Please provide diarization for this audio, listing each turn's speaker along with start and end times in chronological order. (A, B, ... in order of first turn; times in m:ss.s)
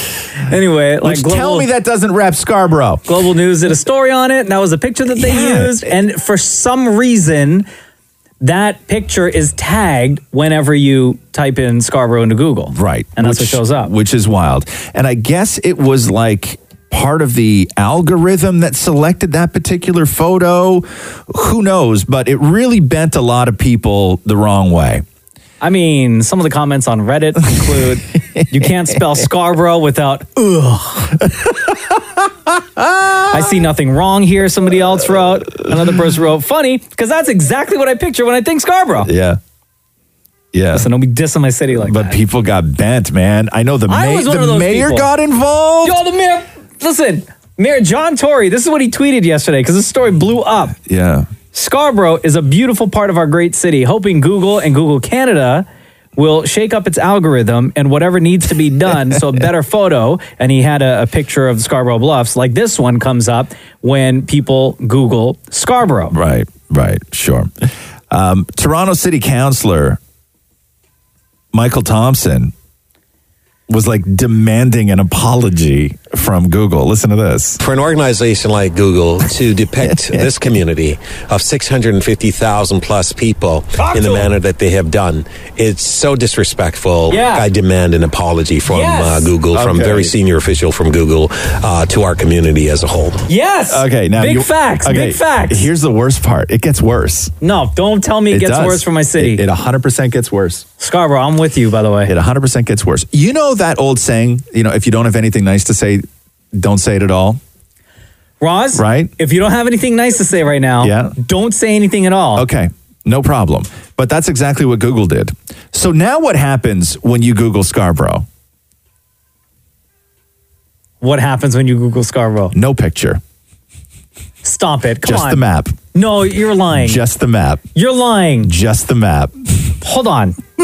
0:00.4-0:01.7 A
0:01.0-0:03.0 B
0:03.1-0:07.7 A
0:05.2-0:06.0 B
0:08.4-0:13.9 A
0:12.7-0:25.0 B
0:25.6-0:31.2 A
0:32.8-0:33.4 B
0:33.3-0:39.1 A
0:39.0-0:39.4 B
0:40.5-0:40.9 B
0:40.8-0:42.2 A
0:41.8-0:46.0 B
0:43.9-0:45.1 A
0:45.8-0:50.8 A
0:50.9-0:51.3 B
0:51.5-0:55.7 A
0:56.2-1:06.2 A
1:06.1-1:07.5 B
1:08.1-1:10.0 B
1:11.5-1:12.5 B
1:13.7-1:17.6 B
1:17.6-1:33.2 C
1:19.8-1:20.6 B
1:23.8-1:24.3 A
1:27.1-1:27.4 A
1:28.7-1:29.3 A
1:29.5-1:30.1 B
1:33.3-1:35.7 A
1:33.7-1:37.3 B
1:37.4-1:39.4 A
1:38.3-1:40.6 B
1:40.8-1:42.1 A
1:42.1-1:47.4 B
1:48.4-1:52.4 A
1:48.8-1:49.1 B
1:50.8-1:51.2 B
1:52.4-1:58.3 B
2:01.0-2:02.5 A
2:02.5-2:03.2 B
2:04.4-2:05.4 A
2:05.0-2:05.8 B
2:05.9-2:07.0 A
2:06.7-2:07.7 B
2:07.8-2:08.5 A
2:08.4-2:09.7 B
2:09.8-2:10.4 A